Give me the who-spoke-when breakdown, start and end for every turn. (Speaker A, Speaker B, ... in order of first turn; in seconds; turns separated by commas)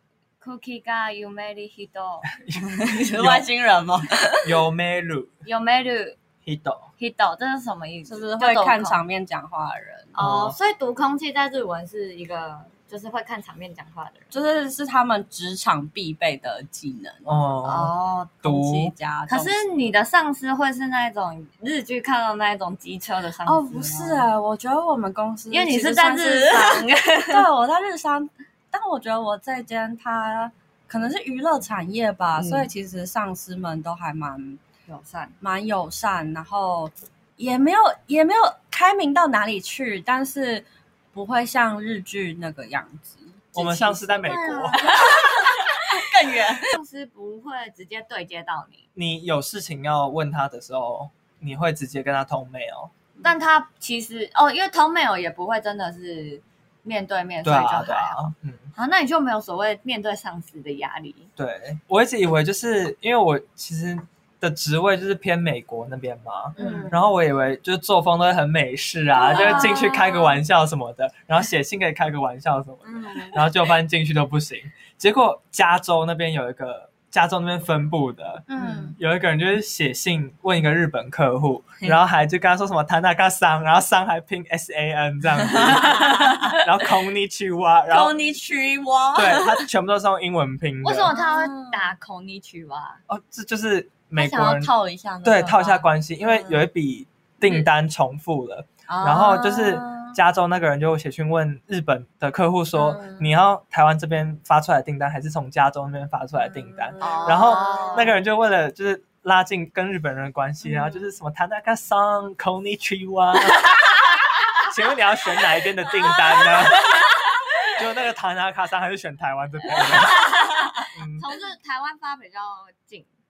Speaker A: 0.4-2.3, Speaker B: 2.4-3.4, Speaker C: 2.6-4.6, Speaker B: 4.4-5.3, Speaker A: 5.4-6.2, Speaker B: 6.4-6.9, Speaker A: 7.0-9.0, Speaker C: 8.1-10.1, Speaker A: 10.1-14.3, Speaker B: 10.2-10.6, Speaker C: 14.3-17.3, Speaker B: 17.2-17.9, Speaker A: 17.6-18.3, Speaker C: 18.4-19.6, Speaker B: 18.4-18.9, Speaker A: 19.3-24.3, Speaker C: 23.4-34.6, Speaker A: 25.5-27.4, Speaker A: 32.4-32.7, Speaker A: 34.9-35.4, Speaker C: 35.4-46.7, Speaker B: 43.5-44.9, Speaker A: 44.2-46.0, Speaker A: 46.6-48.8, Speaker B: 48.9-52.9, Speaker A: 53.2-58.2, Speaker B: 57.4-58.7, Speaker A: 58.7-61.3, Speaker B: 61.4-88.2, Speaker A: 66.6-66.9, Speaker C: 66.6-67.0, Speaker A: 69.2-70.3, Speaker C: 69.2-69.9, Speaker C: 72.9-73.5, Speaker C: 78.5-79.0, Speaker C: 85.6-86.5, Speaker C: 87.9-89.7, Speaker B: 89.1-91.1, Speaker A: 90.8-93.0, Speaker C: 91.1-91.9, Speaker B: 93.1-94.7, Speaker C: 94.1-96.7, Speaker B: 95.2-113.8, Speaker C: 98.9-100.2, Speaker C: 102.7-103.2, Speaker C: 106.5-108.1, Speaker A: 107.0-108.2, Speaker B: 114.6-117.1, Speaker B: 117.7-120.4, Speaker A: 119.7-123.1, Speaker B: 120.9-121.2